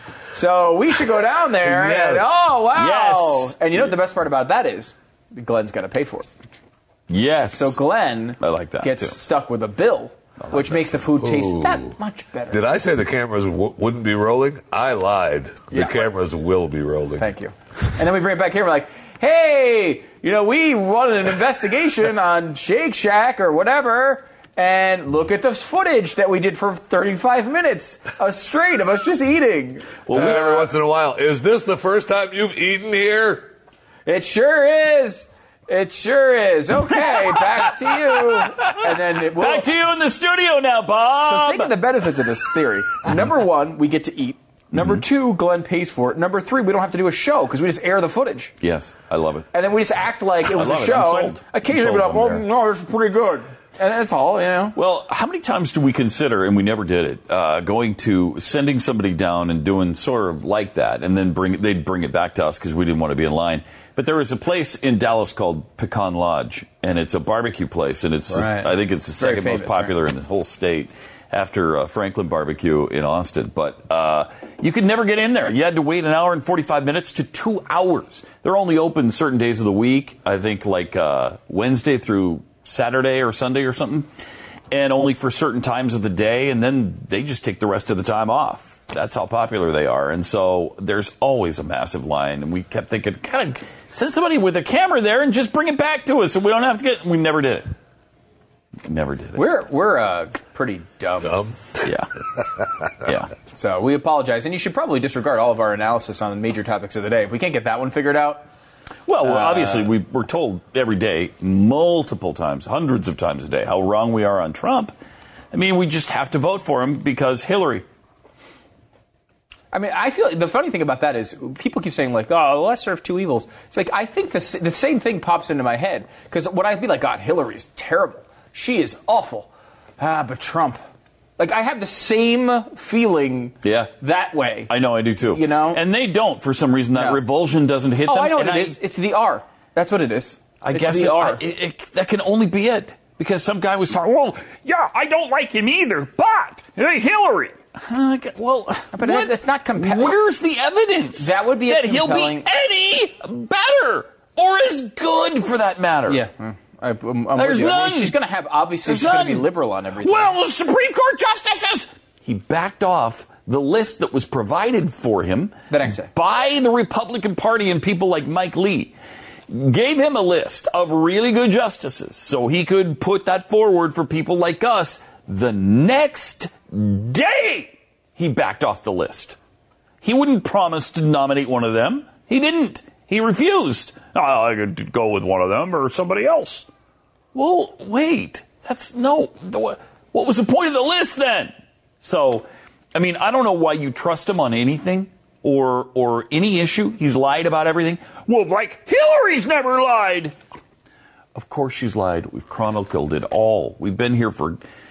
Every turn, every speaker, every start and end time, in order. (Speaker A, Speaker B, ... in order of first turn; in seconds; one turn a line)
Speaker A: 0.3-6.3
Speaker B: 1.6-2.2
Speaker C: 2.7-3.8
Speaker C: 7.1-7.8
Speaker A: 7.5-12.6
Speaker C: 8.4-9.2
Speaker C: 10.4-11.0
Speaker B: 11.2-11.9
Speaker B: 12.5-17.3
Speaker A: 15.7-16.1
Speaker A: 17.2-30.6
Speaker B: 30.1-33.5
Speaker A: 34.0-39.7
Speaker C: 37.4-41.8
Speaker A: 41.2-48.5
Speaker C: 44.7-45.0
Speaker C: 48.6-49.5
Speaker A: 49.5-54.8
Speaker C: 50.4-52.4
Speaker C: 54.8-84.1
Speaker A: 68.3-69.9
Speaker C: 84.7-97.7
Speaker C: 98.8-99.5
Speaker A: 99.3-101.4
Speaker B: 101.2-101.9
Speaker C: 101.8-102.1
Speaker C: 103.0-103.3
Speaker A: 103.5-108.5
Speaker C: 109.1-114.9
Speaker A: 109.2-109.9
Speaker C: 115.5-117.8
Speaker A: 119.7-130.8
Speaker A: 131.4-134.7
Speaker C: 133.6-133.9
Speaker C: 134.7-138.8
Speaker A: 135.3-135.8
Speaker A: 136.9-137.2
Speaker A: 138.1-141.4
Speaker C: 140.6-156.2
Speaker A: 148.9-150.2
Speaker A: 151.2-152.5
Speaker A: 156.1-160.3
Speaker C: 157.3-158.2
Speaker C: 158.8-159.5
Speaker C: 160.0-165.5
Speaker A: 165.7-166.1
Speaker C: 166.1-168.9
Speaker C: 169.5-179.4
Speaker C: 180.0-186.7
Speaker C: 187.3-200.3
Speaker C: 201.3-204.6